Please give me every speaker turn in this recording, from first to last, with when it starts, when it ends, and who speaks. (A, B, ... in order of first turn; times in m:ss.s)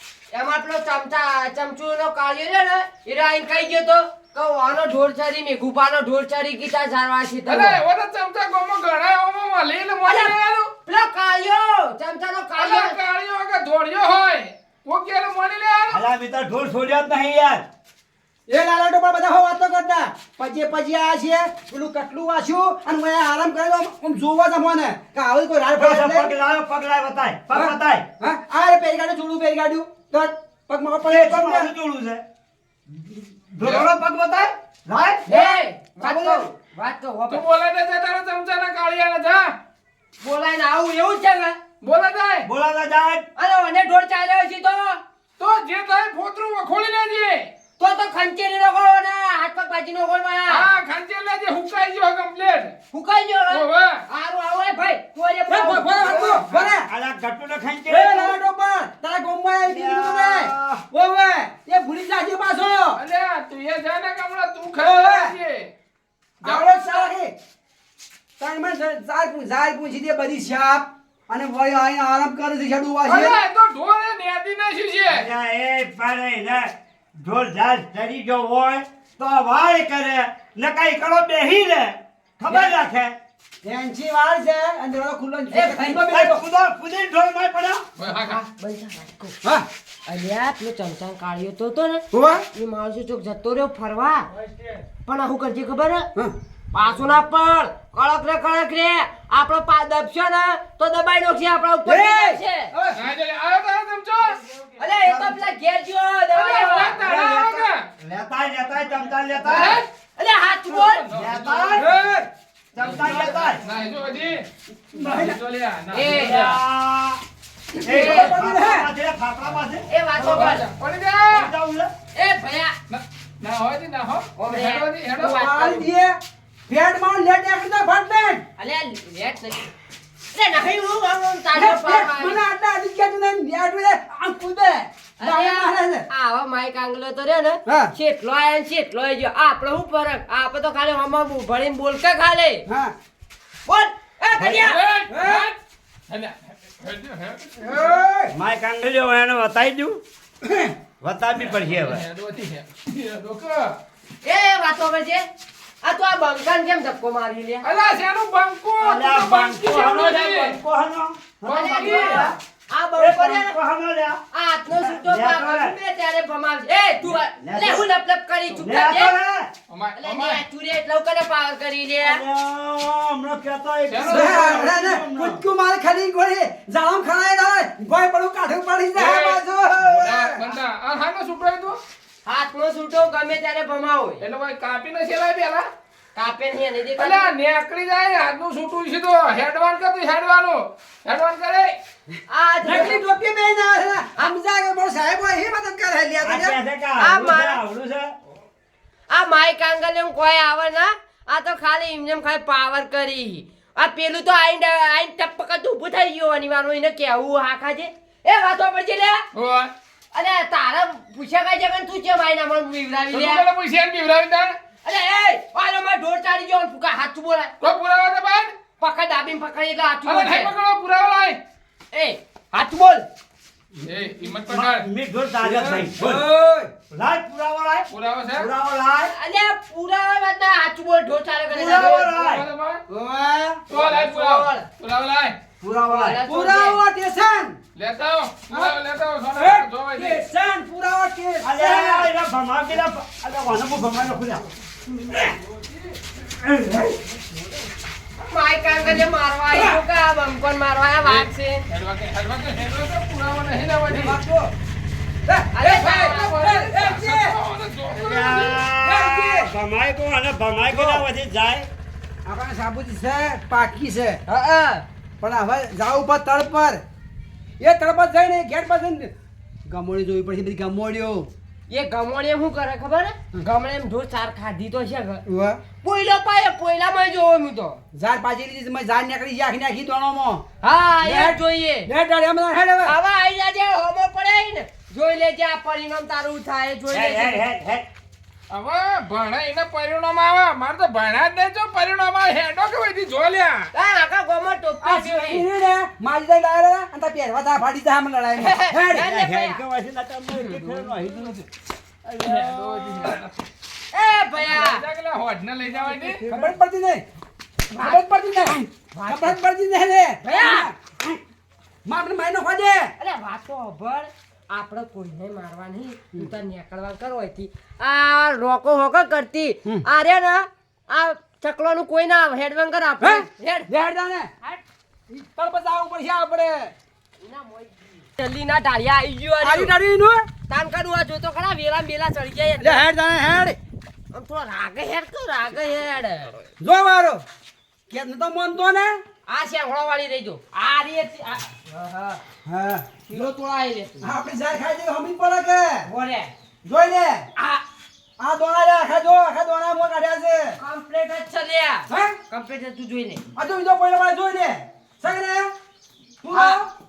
0:00.3-0:07.8 A
0:07.5-0:10.7 B
0:10.0-0:13.0 A
0:12.6-0:16.0 B
0:15.9-0:17.6 C
0:18.5-0:26.3 D
0:25.8-0:28.0 C
0:27.5-0:31.7 D
0:31.0-0:32.2 C
0:32.9-0:35.2 C
0:33.6-0:33.9 B
0:35.3-0:36.4 D
0:35.3-0:37.4 A
0:37.3-0:39.6 B
0:40.2-0:41.6 A
0:41.8-0:42.5 B
0:42.4-0:43.2 C
0:43.4-0:45.0 A
0:45.4-0:47.5 B
0:47.8-0:50.7 A
0:50.5-0:52.8 B
0:52.9-0:56.7 A
0:53.5-0:54.0 B
0:55.5-0:56.9 D
0:56.9-0:58.4 C
0:57.9-1:03.0 D
0:59.6-1:00.8 C
1:03.0-1:05.7 B
1:04.8-1:05.3 D
1:06.4-1:07.1 B
1:06.4-1:07.3 D
1:08.4-1:13.4 D
1:13.0-1:15.3 B
1:15.1-1:23.2 C
1:23.6-1:26.4 D
1:25.5-1:26.0 A
1:26.1-1:27.8 C
1:28.0-1:28.4 B
1:28.1-1:29.4 A
1:30.0-1:34.3 A
1:32.1-1:32.4 D
1:35.0-1:36.1 A
1:36.7-1:42.7 A
1:41.8-1:43.0 D
1:42.9-1:44.4 B
1:44.8-1:47.0 A
1:45.0-1:45.4 C
1:46.3-1:47.8 B
1:46.8-1:49.8 C
1:49.5-1:49.8 B
1:49.5-1:51.1 A
1:50.7-1:51.8 B
1:51.1-1:51.9 C
1:51.8-1:52.3 D
1:52.7-1:53.6 C
1:52.8-1:56.6 B
1:54.9-1:55.4 D
1:55.9-1:56.4 A
1:56.0-1:57.2 C
1:57.7-1:58.9 D
1:57.8-1:59.9 C
1:57.8-1:58.3 A
1:59.9-2:00.6 A
2:00.2-2:01.5 B
2:01.3-2:01.9 C
2:02.1-2:02.7 A
2:02.9-2:05.4 B
2:04.4-2:05.9 A
2:05.2-2:06.2 D
2:06.7-2:08.4 D
2:08.6-2:09.7 A
2:10.3-2:12.4 A
2:11.5-2:16.0 D
2:15.2-2:22.6 A
2:17.7-2:17.9 D
2:22.7-2:22.9 D
2:23.6-2:24.8 A
2:24.4-2:24.7 C
2:24.6-2:25.6 B
2:25.1-2:25.5 D
2:26.1-2:27.7 B
2:27.6-2:28.3 D
2:28.3-2:30.0 C
2:30.4-2:30.7 D
2:31.0-2:32.0 C
2:31.4-2:33.8 B
2:34.2-2:35.2 A
2:35.8-2:37.6 A
2:37.6-2:40.6 B
2:38.8-2:42.4 C
2:41.4-2:42.3 B
2:41.5-2:43.6 A
2:43.0-2:44.2 C
2:44.3-2:49.2 A
2:44.9-2:45.8 C
2:47.4-2:47.8 C
2:48.5-2:49.5 C
2:49.7-2:50.4 B
2:50.0-2:52.2 A
2:52.0-2:55.4 C
2:53.9-2:54.7 B
2:54.0-3:00.5 D
2:58.9-2:59.4 B
3:00.0-3:01.8 B
3:02.2-3:04.2 A
3:04.2-3:05.7 B
3:06.1-3:07.3 A
3:07.0-3:11.7 B
3:12.3-3:13.0 A
3:12.6-3:16.6 D
3:16.2-3:18.1 C
3:17.0-3:17.6 A
3:19.1-3:29.2 A
3:29.3-3:29.7 B
3:30.1-3:33.4 A
3:33.1-3:34.6 B
3:34.8-3:37.5 A
3:37.6-3:38.6 B
3:38.8-3:40.5 A
3:40.0-3:41.4 B
3:41.9-3:43.0 A
3:43.8-3:44.9 B
3:44.5-3:46.3 C
3:45.4-3:46.7 D
3:46.9-3:49.1 C
3:47.9-3:48.5 B
3:49.1-3:52.0 A
3:51.5-3:52.4 C
3:51.6-3:52.8 B
3:52.9-3:53.6 D
3:53.7-3:55.4 B
3:53.7-3:54.6 A
3:55.6-3:56.2 C
3:55.9-3:56.8 A
3:56.2-3:57.6 D
3:57.8-4:00.2 B
3:58.5-3:58.7 D
3:59.3-4:02.1 D
4:01.4-4:04.4 C
4:05.1-4:06.0 B
4:06.2-4:06.9 C
4:07.0-4:07.3 D
4:08.2-4:11.6 A
4:09.5-4:09.8 D
4:11.0-4:14.2 B
4:13.9-4:14.5 D
4:15.2-4:17.3 D
4:15.5-4:16.4 A
4:15.9-4:18.6 B
4:17.9-4:21.7 C
4:18.8-4:19.5 D
4:20.7-4:21.0 D
4:22.2-4:24.2 D
4:24.3-4:24.8 A
4:25.2-4:26.8 D
4:27.6-4:29.1 D
4:29.7-4:31.3 D
4:31.7-4:35.2 A
4:35.3-4:35.6 D
4:35.8-4:37.8 A
4:37.9-4:40.4 D
4:40.6-4:41.9 A
4:41.0-4:42.9 D
4:42.8-4:47.4 A
4:46.9-4:47.9 C
4:48.5-4:53.7 B
4:53.7-4:55.4 A
4:54.8-4:59.1 D
4:58.4-4:59.6 A
4:59.0-5:01.4 C
5:00.3-5:00.8 A
5:01.0-5:01.4 B
5:02.0-5:03.2 C
5:02.2-5:03.4 B
5:03.9-5:04.8 A
5:04.4-5:06.2 B
5:06.2-5:07.0 D
5:07.7-5:09.4 A
5:07.7-5:11.0 D
5:10.2-5:10.7 A
5:11.8-5:12.9 D
5:13.0-5:23.7 A
5:23.0-5:24.3 D
5:25.1-5:26.7 D
5:27.2-5:29.7 A
5:29.4-5:30.3 D
5:30.5-5:32.8 A
5:32.6-5:33.6 D
5:34.1-5:36.4 A
5:36.6-5:37.2 D
5:37.9-5:39.0 D
5:39.3-5:42.2 A
5:42.4-5:43.3 D
5:43.1-5:44.1 A
5:44.0-5:45.8 D
5:45.8-5:46.3 A
5:46.6-5:47.2 D
5:47.4-5:47.6 A
5:48.2-5:50.5 D
5:50.6-5:53.2 A
5:51.9-5:52.2 D
5:53.3-5:55.5 D
5:56.2-5:56.7 D
5:56.3-5:56.6 A